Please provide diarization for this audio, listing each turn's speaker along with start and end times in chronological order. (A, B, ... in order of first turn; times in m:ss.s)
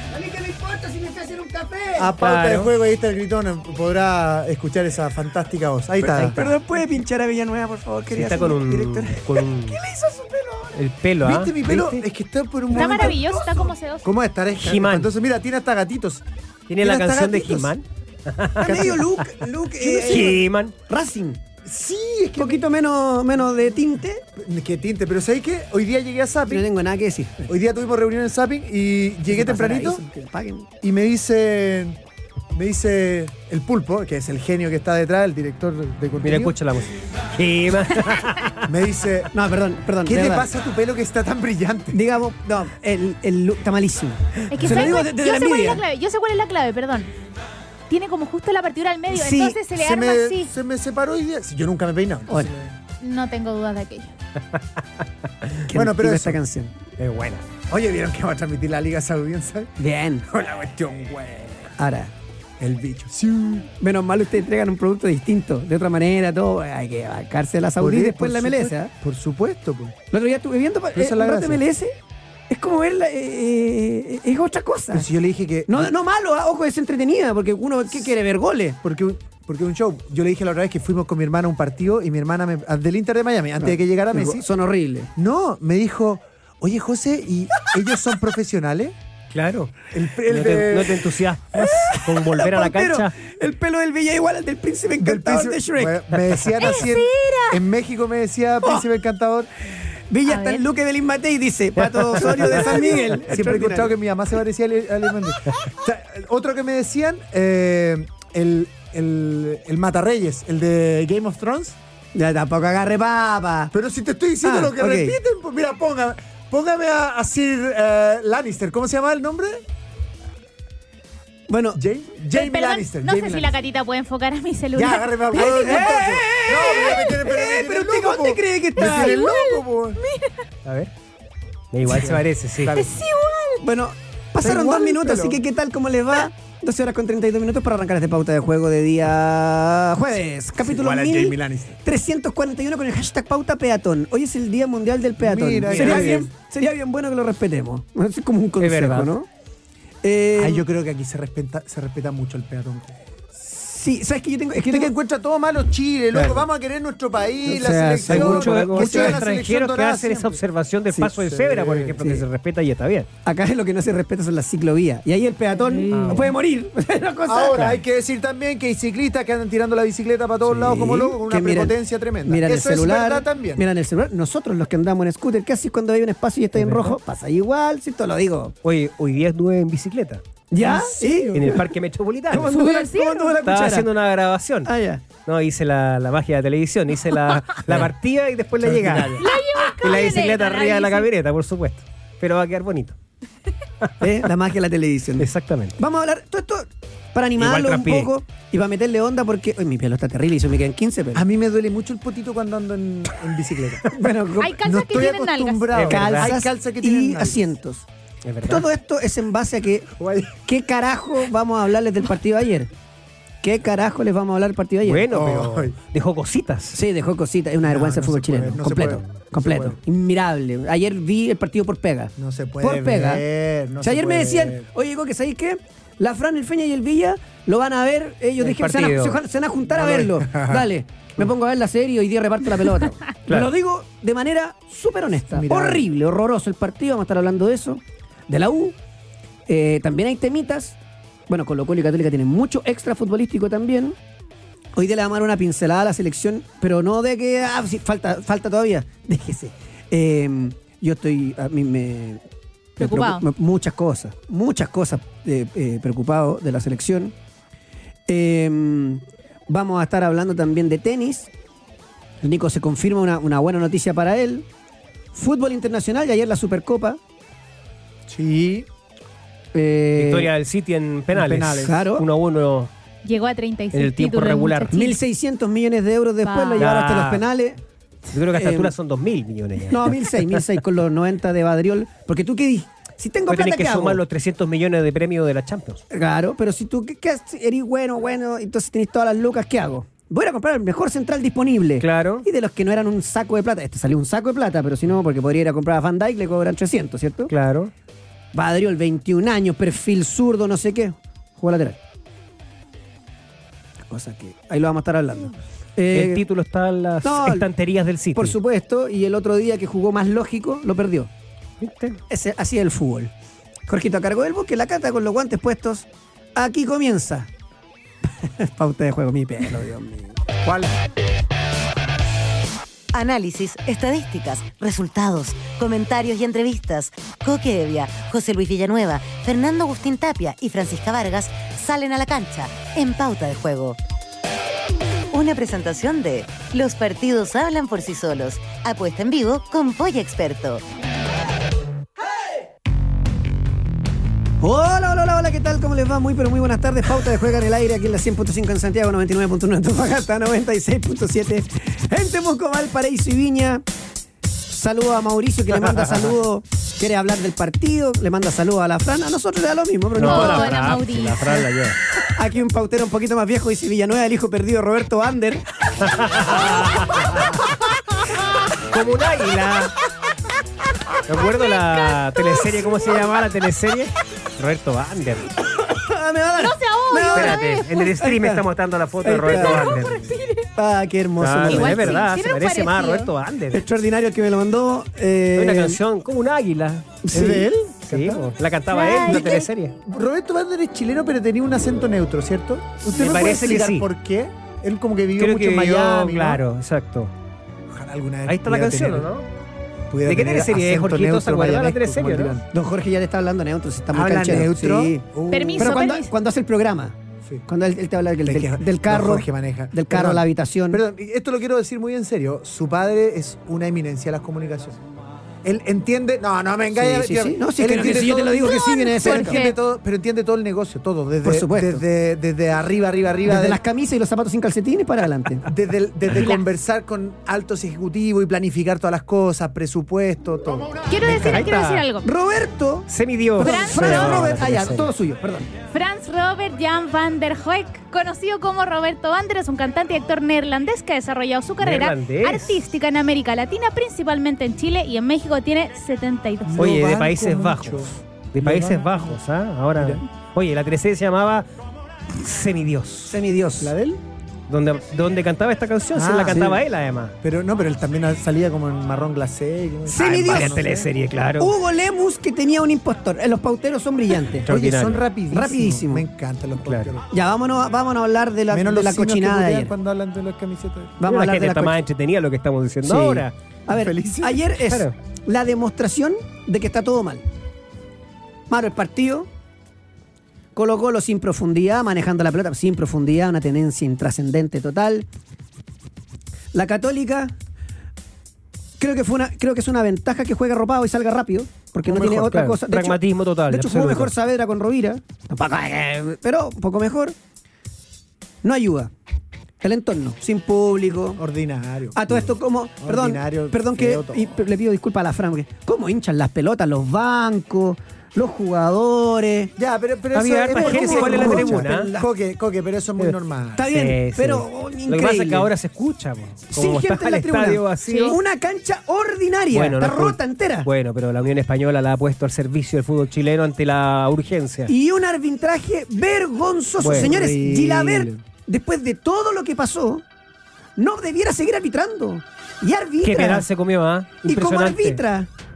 0:00.1-0:02.2 A
0:02.0-0:06.5 B
0:02.2-0:02.7 C
0:06.0-0:10.8 A
0:08.1-0:09.8 C
0:10.7-0:12.0 C
0:11.2-0:16.2 B
0:12.7-0:14.1 D
0:14.6-0:15.1 C
0:16.7-0:19.3 C
0:16.8-0:17.7 B
0:18.6-0:21.4 A
0:19.8-0:20.8 C
0:21.6-0:22.7 B
0:22.4-0:24.2 A
0:24.4-0:26.7 B
0:26.5-0:27.5 A
0:27.5-0:30.0 B
0:29.3-0:30.7 A
0:30.8-0:32.0 B
0:32.5-0:36.6 B
0:36.2-0:38.7 C
0:38.7-0:39.3 B
0:39.3-0:40.5 A
0:40.0-0:42.0 B
0:41.9-0:45.8 A
0:44.5-0:47.1 D
0:47.9-0:50.5 D
0:49.1-0:49.6 A
0:49.7-0:52.8 B
0:53.0-0:54.1 D
0:55.7-0:56.7 A
0:55.7-0:56.4 B
0:57.0-0:57.4 C
0:57.7-1:01.8 B
0:59.8-1:00.3 A
1:01.8-1:02.1 A
1:02.6-1:03.7 B
1:03.8-1:08.9 A
1:07.8-1:10.0 B
1:10.1-1:11.9 A
1:10.9-1:11.6 B
1:12.5-1:15.1 A
1:14.9-1:15.9 B
1:15.7-1:18.8 A
1:18.8-1:24.5 B
1:23.6-1:25.1 A
1:25.2-1:29.0 B
1:29.3-1:33.1 C
1:29.9-1:31.2 B
1:31.6-1:36.0 A
1:35.0-1:39.5 B
1:36.6-1:37.6 D
1:40.1-1:44.0 A
1:40.3-1:40.7 D
1:41.9-1:42.7 C
1:42.3-1:51.8 B
1:52.2-1:53.7 A
1:53.7-1:59.6 B
1:54.4-1:55.2 A
2:01.5-2:01.8 A
2:01.8-2:03.6 B
2:02.3-2:06.0 D
2:04.7-2:10.0 B
2:05.3-2:09.2 A
2:06.7-2:07.2 D
2:08.8-2:10.4 D
2:10.6-2:10.9 C
2:11.7-2:12.8 C
2:11.8-2:13.0 B
2:12.7-2:13.6 D
2:13.6-2:29.3 A
2:14.4-2:15.4 B
2:20.6-2:21.8 B
2:25.2-2:26.3 B
2:25.7-2:26.2 C
2:28.6-2:29.1 C
2:30.0-2:30.6 A
2:30.4-2:33.0 B
2:33.4-2:34.9 A
2:34.6-2:40.4 B
2:37.5-2:39.2 A
2:38.1-2:43.1 C
2:41.0-2:42.0 B
2:43.2-2:47.8 A
2:45.6-2:46.2 D
2:45.9-2:46.3 C
2:47.3-2:53.6 B
2:50.5-2:58.6 A
2:56.6-2:57.0 C
2:58.6-3:00.2 C
3:00.5-3:01.6 A
3:00.6-3:01.7 B
3:01.3-3:02.6 C
3:02.3-3:03.9 A
3:02.4-3:03.4 D
3:03.4-3:04.7 C
3:04.6-3:05.0 A
3:05.2-3:13.0 C
3:08.6-3:09.3 B
3:09.2-3:11.1 D
3:14.0-3:21.2 A
3:15.2-3:15.8 C
3:17.4-3:18.1 C
3:21.1-3:23.9 B
3:23.9-3:24.6 A
3:24.4-3:25.7 D
3:24.6-3:27.5 B
3:25.7-3:26.3 C
3:25.9-3:27.8 A
3:28.2-3:28.7 C
3:28.4-3:29.9 A
3:29.9-3:30.4 B
3:30.4-3:32.7 A
3:33.4-3:35.1 A
3:34.8-3:36.8 C
3:35.1-3:35.8 B
3:36.7-3:43.2 A
3:37.6-3:39.8 B
3:42.2-3:44.7 B
3:43.8-3:58.8 A
3:48.4-3:49.2 C
3:49.7-3:50.7 B
3:55.3-3:55.9 B
3:59.5-4:00.8 A
4:01.3-4:04.0 A
4:04.8-4:12.2 A
4:12.8-4:17.1 A
4:12.8-4:13.3 D
4:18.1-4:21.3 A
4:22.2-4:24.5 A
4:25.1-4:27.0 A
4:28.1-4:28.7 B
4:29.5-4:30.3 A
4:30.0-4:32.7 C
4:31.1-4:31.8 B
4:31.6-4:32.1 A
4:33.0-4:35.0 D
4:33.7-4:34.7 C
4:34.7-4:37.6 A
4:36.2-4:36.7 D
4:36.6-4:37.2 C
4:38.1-4:40.4 C
4:38.3-4:38.7 A
4:39.7-4:44.0 A
4:43.3-4:45.8 C
4:45.9-4:57.3 A
4:51.8-4:52.3 C
4:57.3-4:57.7 C
4:58.3-5:01.8 A
5:03.9-5:06.2 A
5:05.9-5:08.4 C
5:07.0-5:07.4 A
5:08.2-5:11.1 A
5:11.6-5:12.0 C
5:12.1-5:13.1 A
5:13.7-5:17.3 A
5:18.2-5:20.2 A
5:20.4-5:20.7 B
5:22.9-5:33.8 E
5:35.1-5:40.6 E
5:44.4-5:53.6 A
5:54.5-6:00.6 A
5:55.6-5:56.1 C
6:00.0-6:01.8 C
6:00.0-6:01.5 D
6:02.1-6:05.4 A
6:05.8-6:07.5 C
6:08.7-6:09.8 C
6:11.1-6:15.3 C
6:11.5-6:12.7 D
6:15.6-6:18.4 A
6:16.4-6:17.8 D
6:17.1-6:20.1 C
6:19.0-6:19.8 A
6:19.4-6:20.5 D
6:20.6-6:22.0 A
6:21.2-6:23.6 C
6:21.5-6:23.1 D
6:23.5-6:25.8 A
6:25.4-6:27.0 C
6:27.0-6:27.5 A
6:27.1-6:28.3 B
6:27.8-6:29.8 C
6:28.7-6:29.5 D
6:29.0-6:36.4 B
6:32.8-6:33.9 C
6:35.2-6:37.1 C
6:37.7-6:39.1 B
6:38.3-6:39.3 C
6:39.9-6:42.5 B
6:40.0-6:42.4 C
6:42.5-6:45.0 A
6:43.9-6:45.9 B
6:45.3-6:46.1 D
6:45.6-6:50.8 A
6:48.2-6:54.8 B
6:55.4-7:03.6 B
6:56.7-6:59.4 A
6:58.3-6:59.6 D
7:01.2-7:01.8 A
7:03.2-7:05.5 A
7:05.5-7:11.5 B
7:06.1-7:06.4 D
7:10.9-7:12.1 D
7:11.0-7:11.9 C
7:12.0-7:15.5 A
7:12.9-7:14.9 C
7:13.4-7:14.3 D
7:15.7-7:26.7 D
7:21.6-7:22.6 C
7:26.4-7:29.2 B
7:26.6-7:31.5 C
7:29.7-7:30.0 B
7:32.2-7:33.2 C
7:33.1-7:33.8 A
7:33.6-7:34.0 B
7:34.5-7:37.2 C
7:36.0-7:36.6 B
7:37.2-7:40.9 B
7:39.9-7:40.7 A
7:40.0-7:41.5 C
7:41.4-7:44.5 A
7:44.5-7:45.1 C
7:44.5-7:47.0 B
7:45.3-7:46.1 A
7:46.6-7:46.9 C
7:47.1-7:49.7 A
7:48.5-7:51.0 B
7:51.0-7:51.8 A
7:51.0-7:53.4 C
7:52.8-7:57.2 A
7:53.7-7:54.4 B
7:54.7-7:55.0 C
7:58.5-7:59.3 A
8:00.6-8:05.1 A
8:06.5-8:07.3 A
8:08.8-8:17.2 A
8:11.9-8:12.3 B
8:12.0-8:14.1 C
8:18.4-8:18.9 A
8:19.6-8:21.2 A
8:21.2-8:22.0 B
8:22.0-8:29.5 A
8:22.8-8:24.4 B
8:29.6-8:33.7 B
8:30.1-8:31.9 C
8:30.5-8:32.1 A
8:33.6-8:35.5 A
8:33.7-8:38.2 C
8:36.5-8:40.7 A
8:37.8-8:38.2 D
8:39.5-8:44.7 C
8:44.7-8:50.0 A
8:46.8-8:48.2 B
8:46.8-8:47.2 C
8:50.8-8:53.5 A
8:53.0-8:55.0 C
8:54.3-8:55.3 A